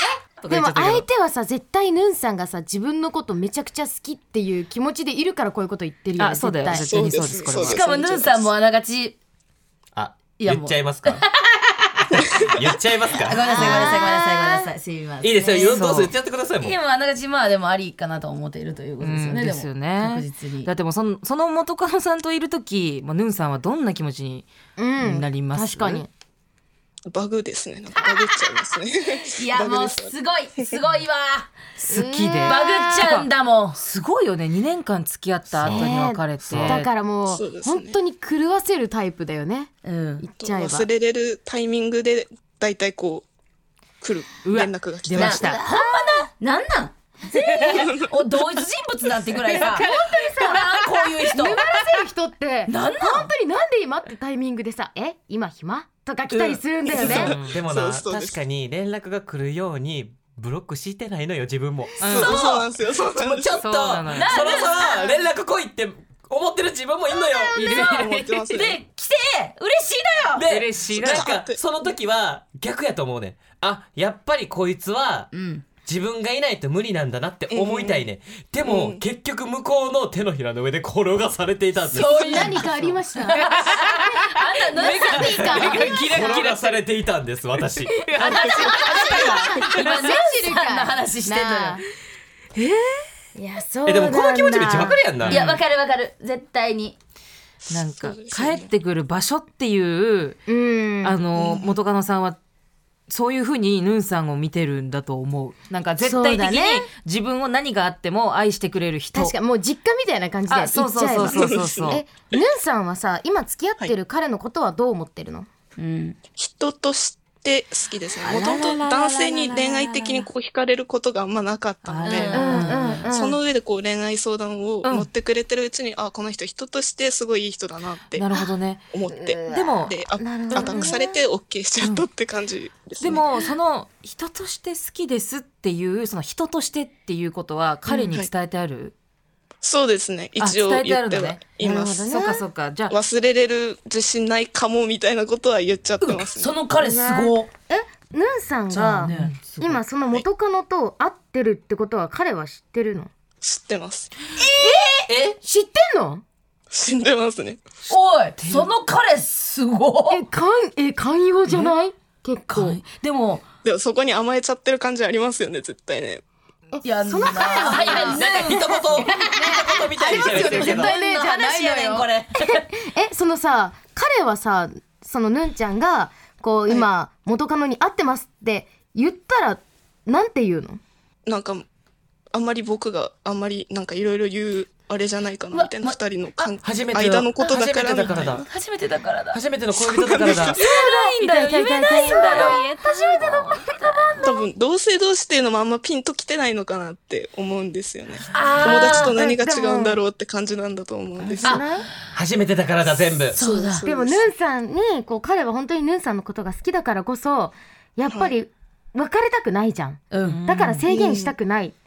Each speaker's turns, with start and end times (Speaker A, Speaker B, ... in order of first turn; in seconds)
Speaker A: 0.4-1.1, 6.2-7.8, 13.4-14.3, 15.6-16.1, 19.0-24.5, 25.0-26.0, 31.8-36.9, 44.4-45.6, 57.0-57.6, 62.0-62.4, 63.6-64.4, 67.6-68.3, 70.5-71.3, 84.8-86.8, 88.1-90.1, 92.6-92.9, 95.2-95.6, 97.7-100.4, 101.0-102.4, 103.1-109.3, 110.5-112.0, 118.2-120.2, 121.8-123.1, 128.2-128.9, 129.5-129.9, 130.6-130.9, 133.0-138.9, 140.4-141.4, 142.1-142.9, 149.1-149.8, 158.4-158.7, 191.2-194.2, 210.2-210.9
Speaker B: 0.5-7.1, 24.8-26.1, 31.9-33.0, 35.6-40.9, 49.6-50.5, 51.2-57.4, 82.0-86.2, 88.8-91.8, 93.3-95.0, 100.5-101.2, 106.0-106.9, 109.1-115.5, 122.3-123.4, 129.2-131.0, 141.6-142.4, 146.8-153.1, 155.4-156.2, 160.1-162.8, 166.7-168.3, 169.2-180.8, 190.6-192.6, 193.1-193.5, 198.6-200.0, 201.4-201.9, 203.8-211.8
Speaker C: 6.7-8.4, 27.1-30.7, 37.3-38.0, 40.4-43.3, 44.0-45.6, 47.7-48.1, 56.9-58.4, 62.1-63.6, 67.6-68.8, 70.9-71.6, 77.5-78.1, 78.6-79.0, 88.2-89.5, 97.6-98.7, 101.3-101.8, 111.1-112.4, 116.3-122.5, 123.0-128.3, 128.9-133.4, 139.6-142.2, 142.9-146.6, 153.4-154.1, 156.7-157.6, 163.6-166.2, 181.3-181.7, 182.3-188.5, 189.8-190.6, 194.2-201.6, 203.3-204.3, 208.1-208.4, 210.9-211.4
Speaker D: 7.6-9.2, 10.4-12.4, 13.1-20.7, 29.1-31.5, 32.5-33.8, 39.8-40.3, 45.1-51.7, 52.7-53.3, 62.1-62.7, 64.1-65.2, 68.5-70.5, 75.3-75.6, 81.9-83.8, 84.3-86.0, 88.0-91.8, 95.3-97.0, 115.8-116.2, 122.0-123.0, 146.0-147.5, 148.7-149.4, 154.4-155.1, 157.9-160.2, 162.5-163.4, 166.8-172.6, 185.5-186.4, 188.1-189.4, 190.6-194.4, 198.3-199.2, 201.4-201.8, 203.3-203.8, 210.1-210.4
Speaker E: 9.9-11.3, 12.5-13.7, 15.2-16.8, 35.5-35.9, 36.4-36.8, 57.3-62.4, 63.2-67.6, 70.3-75.3, 75.8-82.7, 85.2-88.0, 93.9-95.5, 155.1-155.4, 168.1-171.0, 186.6-188.4, 189.3-190.6, 202.1-203.4